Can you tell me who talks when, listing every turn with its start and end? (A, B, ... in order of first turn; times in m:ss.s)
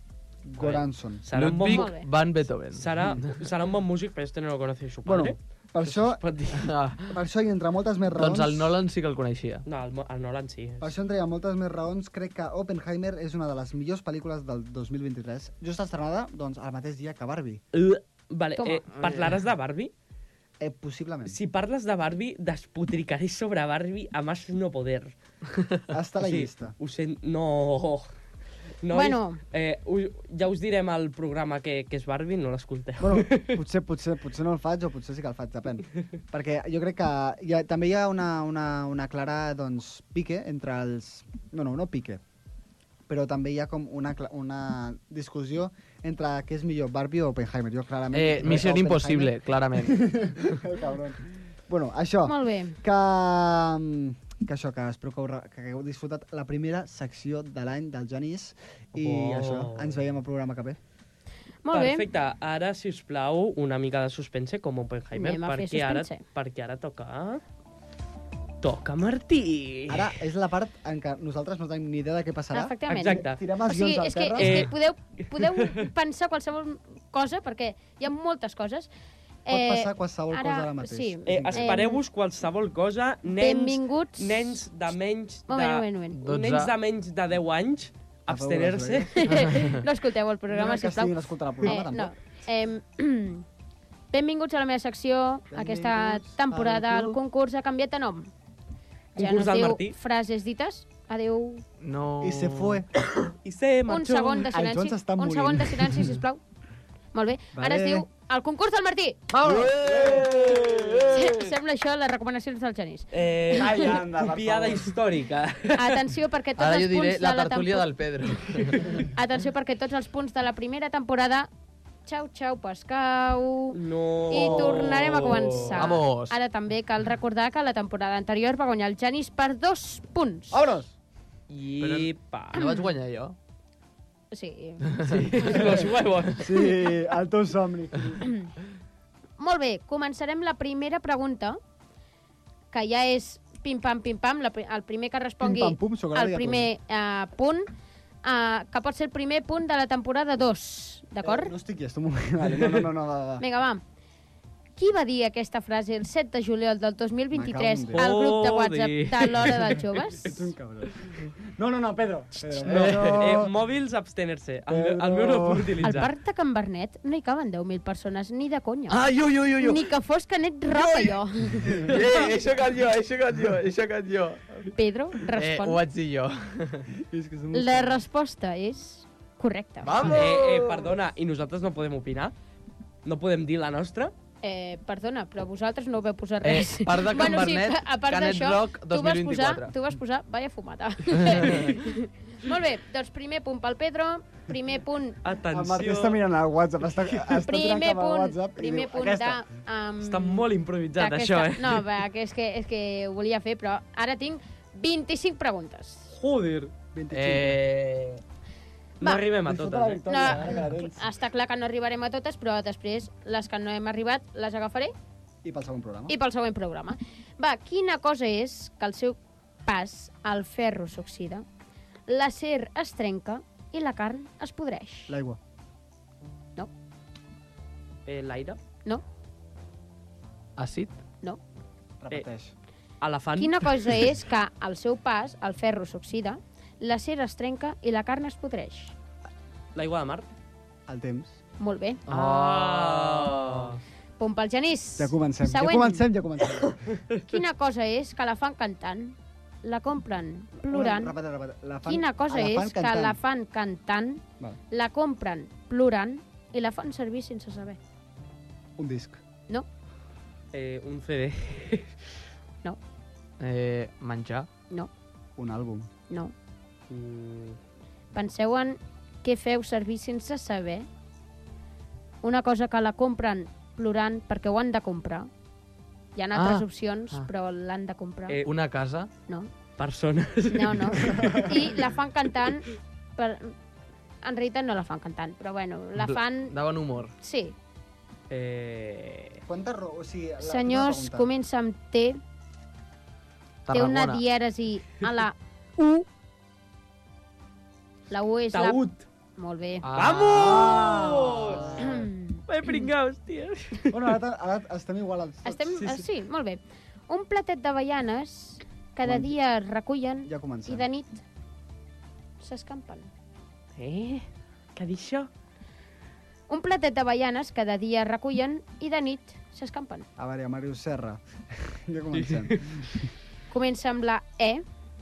0:00.4-0:01.2 A
0:00.6-0:02.0 B
0:01.3-0:03.4 C
0:01.6-0:02.1 D
0:02.7-0:06.7 B
0:05.0-0:06.2 A
0:06.5-0:07.2 C
0:07.1-0:08.8 A
0:08.2-0:09.6 C
0:09.7-0:10.9 B
0:10.8-0:17.6 A
0:17.7-0:19.9 B
0:18.6-0:18.8 D
0:19.0-0:19.4 C
0:20.6-0:21.4 A
0:21.3-0:25.1 B
0:25.9-0:26.8 A
0:26.2-0:28.1 B
0:28.8-0:33.6 B
0:28.9-0:29.4 D
0:33.0-0:42.2 A
0:43.1-1:00.8 A
0:48.1-0:50.5 C
0:52.3-0:52.8 D
0:59.0-1:00.0 B
1:01.6-1:02.1 D
1:01.7-1:07.4 B
1:05.2-1:06.2 D
1:08.6-1:10.2 B
1:09.9-1:14.7 A
1:12.5-1:18.9 D
1:12.9-1:13.4 B
1:14.4-1:14.8 B
1:15.3-1:15.9 B
1:19.5-1:22.0 D
1:19.5-1:21.8 A
1:21.3-1:29.2 B
1:23.4-1:24.6 D
1:25.5-1:26.2 D
1:26.2-1:26.7 C
1:28.3-1:29.6 A
1:29.2-1:33.4 D
1:29.5-1:29.8 C
1:30.5-1:32.2 A
1:34.1-1:38.3 D
1:35.5-1:37.2 A
1:39.2-1:40.0 B
1:39.2-1:41.6 D
1:41.8-1:42.8 C
1:42.2-1:42.9 A
1:43.4-1:44.5 B
1:43.9-1:46.4 D
1:44.5-1:46.1 A
1:47.1-1:49.2 D
1:47.5-1:48.1 A
1:49.3-1:51.1 A
1:49.4-1:51.5 C
1:51.1-1:53.1 D
1:53.1-1:56.1 B
1:53.5-1:54.9 A
1:55.8-1:57.9 D
1:56.6-1:59.1 C
1:59.0-2:01.5 D
2:02.1-2:03.8 D
2:03.7-2:06.0 B
2:04.3-2:10.6 D
2:04.4-2:04.7 C
2:05.8-2:06.4 C
2:10.5-2:11.0 A
2:11.5-2:12.7 B
2:11.8-2:13.4 C
2:14.3-2:14.9 D
2:14.9-2:15.3 C
2:15.1-2:16.7 B
2:16.4-2:18.3 A
2:18.2-2:18.5 D
2:19.4-2:21.6 D
2:22.7-2:27.7 D
2:25.4-2:26.7 A
2:28.2-2:31.5 D
2:31.2-2:33.4 A
2:33.4-2:33.8 D
2:34.8-2:40.4 D
2:37.3-2:38.0 A
2:38.0-2:40.3 B
2:40.2-2:43.5 A
2:42.6-2:46.1 B
2:42.7-2:43.4 C
2:44.7-2:45.8 A
2:45.8-2:49.1 D
2:48.9-2:49.9 C
2:49.6-2:51.8 D
2:50.7-2:54.7 C
2:51.9-2:52.3 B
2:54.8-2:55.8 D
2:55.3-2:56.9 C
2:57.0-2:58.0 A
2:57.5-3:00.1 D
2:59.8-3:00.9 C
3:00.0-3:02.3 B
3:03.0-3:04.1 B
3:04.4-3:15.2 D
3:06.4-3:09.8 C
3:11.2-3:11.7 C
3:15.2-3:16.2 B
3:15.5-3:19.4 A
3:17.4-3:20.4 D
3:20.0-3:21.9 B
3:21.0-3:26.1 D
3:26.2-3:26.7 B
3:26.9-3:27.6 A
3:27.1-3:28.2 C
3:29.0-3:30.4 B
3:29.5-3:31.1 A
3:30.1-3:34.9 D
3:35.4-3:36.1 A
3:36.1-3:41.5 D
3:42.1-3:45.2 D
3:45.1-3:45.4 A
3:48.1-3:48.6 B
3:50.6-3:51.0 C
3:52.0-3:52.6 A
3:53.0-3:54.0 B
3:53.4-3:59.0 D
3:59.8-4:00.3 B
4:00.9-4:01.4 A
4:01.6-4:02.0 D
4:02.1-4:03.8 C
4:02.1-4:03.8 B
4:04.2-4:06.1 D
4:05.0-4:06.8 A
4:07.3-4:11.1 D
4:10.7-4:13.2 A
4:11.9-4:17.8 D
4:18.8-4:19.2 A
4:20.5-4:22.1 B
4:23.4-4:24.5 C
4:25.4-4:25.9 A
4:26.9-4:27.6 B
4:28.1-4:30.9 D
4:32.2-4:35.3 D
4:36.2-4:38.4 D
4:36.3-4:37.3 C
4:38.4-4:39.1 C
4:39.8-4:41.6 B
4:40.5-4:43.6 D
4:41.1-4:41.5 A
4:44.2-4:46.6 D
4:46.0-4:47.1 C
4:47.2-4:47.6 D
4:48.3-4:49.4 B
4:49.5-4:51.3 A
4:50.4-4:52.2 D
4:53.7-4:54.2 C
4:53.7-4:56.1 D
4:58.1-4:58.8 D
4:58.5-4:59.0 B
4:59.4-4:59.9 D
4:59.8-5:01.9 C
5:00.0-5:01.9 B
5:00.3-5:01.9 A
5:01.8-5:02.4 D
5:02.5-5:04.2 B
5:03.9-5:05.8 A
5:05.4-5:11.2 D
5:05.8-5:06.0 B
5:09.0-5:09.3 A
5:10.3-5:10.9 A
5:12.4-5:13.1 D
5:13.8-5:15.3 B
5:16.5-5:20.1 D
5:20.2-5:23.1 A
5:22.2-5:22.9 B
5:23.5-5:24.6 D